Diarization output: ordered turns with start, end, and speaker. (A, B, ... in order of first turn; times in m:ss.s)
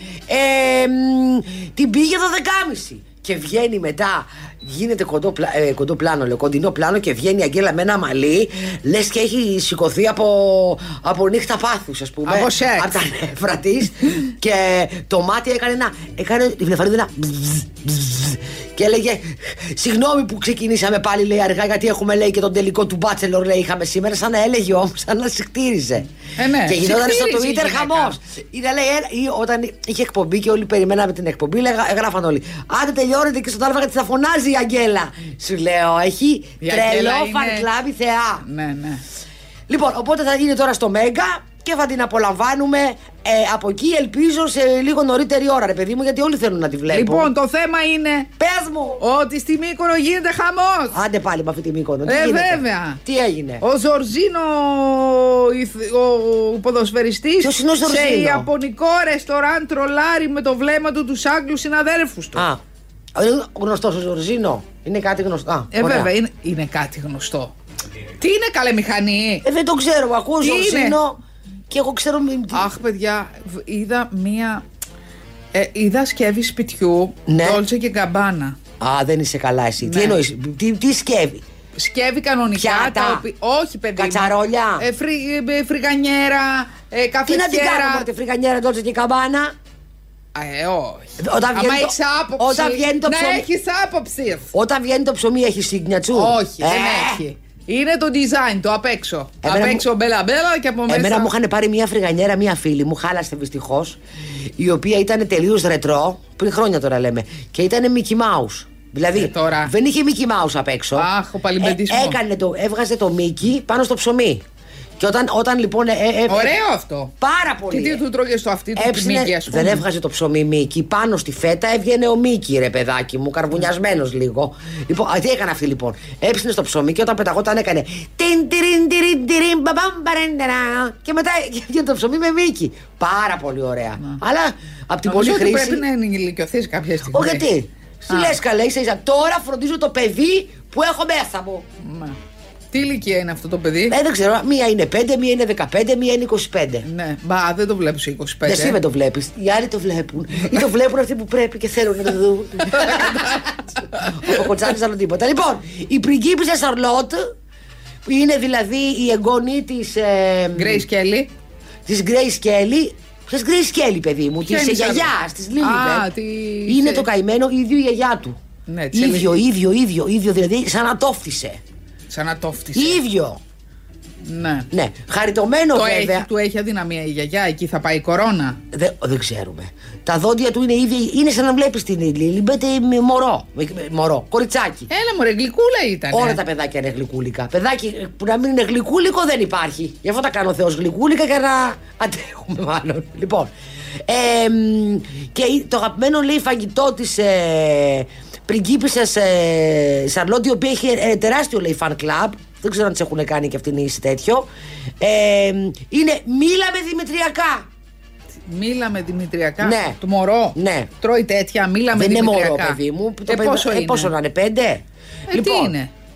0:00.3-0:26.1 A
0:12.2-0:12.9 B
0:26.4-0:28.2 B
0:26.6-0:38.4 A
0:36.6-0:37.7 B
0:38.4-0:39.0 B
0:39.7-0:47.3 A
0:46.9-0:48.3 B
0:48.4-0:49.0 A
0:49.0-0:51.0 B
0:50.9-0:53.6 A
0:52.0-0:53.0 B
0:53.6-1:02.4 B
0:57.4-0:58.5 A
1:03.1-1:06.1 A
1:05.7-1:07.5 B
1:08.2-1:09.4 B
1:09.4-1:11.2 A
1:10.4-1:11.0 B
1:11.7-1:12.7 A
1:12.5-1:14.6 B
1:15.5-1:18.6 B
1:17.3-1:17.6 A
1:18.8-1:21.4 A
1:19.8-1:20.2 B
1:21.8-1:28.1 B
1:22.5-1:23.2 A
1:24.0-1:24.9 A
1:27.3-1:29.5 A
1:30.3-1:34.5 B
1:31.2-1:33.5 A
1:34.5-1:37.2 A
1:36.1-1:41.3 B
1:39.4-1:39.8 A
1:40.9-1:44.0 A
1:44.6-1:51.1 A
1:49.2-1:49.7 B
1:50.9-1:52.2 B
1:51.6-1:54.4 A
1:55.0-1:56.5 A
1:56.3-1:57.1 B
1:57.2-1:58.0 A
1:57.7-1:59.8 B
1:58.7-2:15.8 A
2:15.0-2:17.4 B
2:17.1-2:21.6 A
2:18.1-2:18.4 B
2:21.8-2:22.2 B
2:22.7-2:24.0 B
2:23.9-2:26.8 A
2:26.8-2:28.8 B
2:28.4-2:37.3 A
2:32.6-2:34.4 B
2:38.0-2:40.8 A
2:40.5-2:41.3 B
2:41.8-2:46.1 A
2:44.4-2:47.1 B
2:46.7-2:48.4 A
2:48.7-2:49.4 B
2:48.9-2:51.6 A
2:52.1-2:53.0 B
2:52.7-2:53.4 A
2:54.2-2:54.7 B
2:54.7-2:56.3 A
2:55.7-2:58.6 B
2:58.7-3:04.9 A
3:04.9-3:06.4 B
3:06.1-3:13.5 A
3:14.0-3:24.5 A
3:25.0-3:27.7 A
3:28.5-3:34.1 B
3:29.6-3:30.0 A
3:30.5-3:30.9 A
3:31.9-3:35.7 A
3:35.3-3:35.9 B